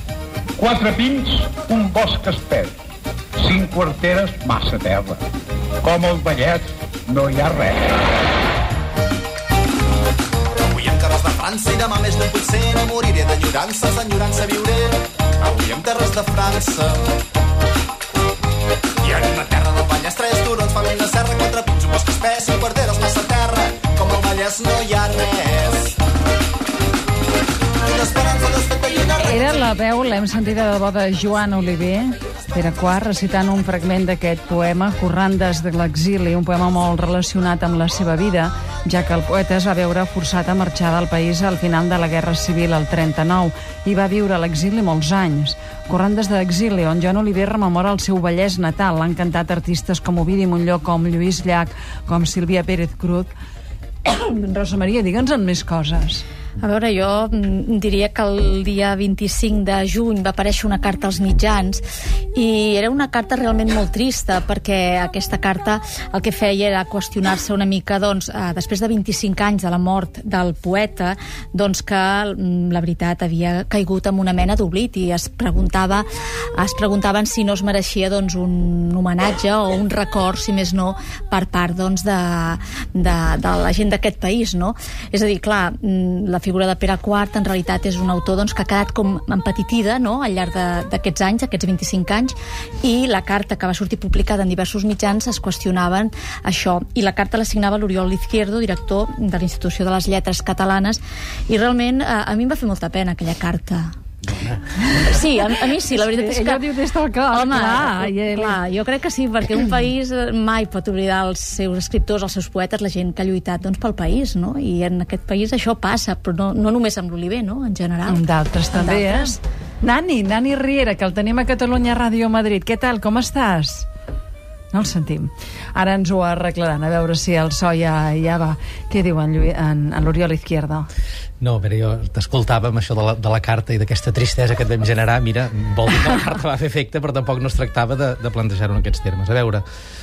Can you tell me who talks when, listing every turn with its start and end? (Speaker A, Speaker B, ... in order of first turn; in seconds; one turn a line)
Speaker A: 0.6-2.7
Speaker A: 3.4-5.2
Speaker A: 5.8-7.9
Speaker B: 10.6-17.0
Speaker B: 19.0-26.0
Speaker B: 27.8-29.6
Speaker C: 29.2-53.3
Speaker C: 54.0-56.2
Speaker D: 56.6-61.8
Speaker D: 62.3-76.0
Speaker D: 76.5-103.9
Speaker E: 104.3-104.6
Speaker D: 104.9-106.6
Speaker C: 105.6-108.6
Speaker D: 107.3-119.3
Speaker C: 118.1-123.9
Speaker C: 124.7-130.9
Speaker E: 131.4-139.6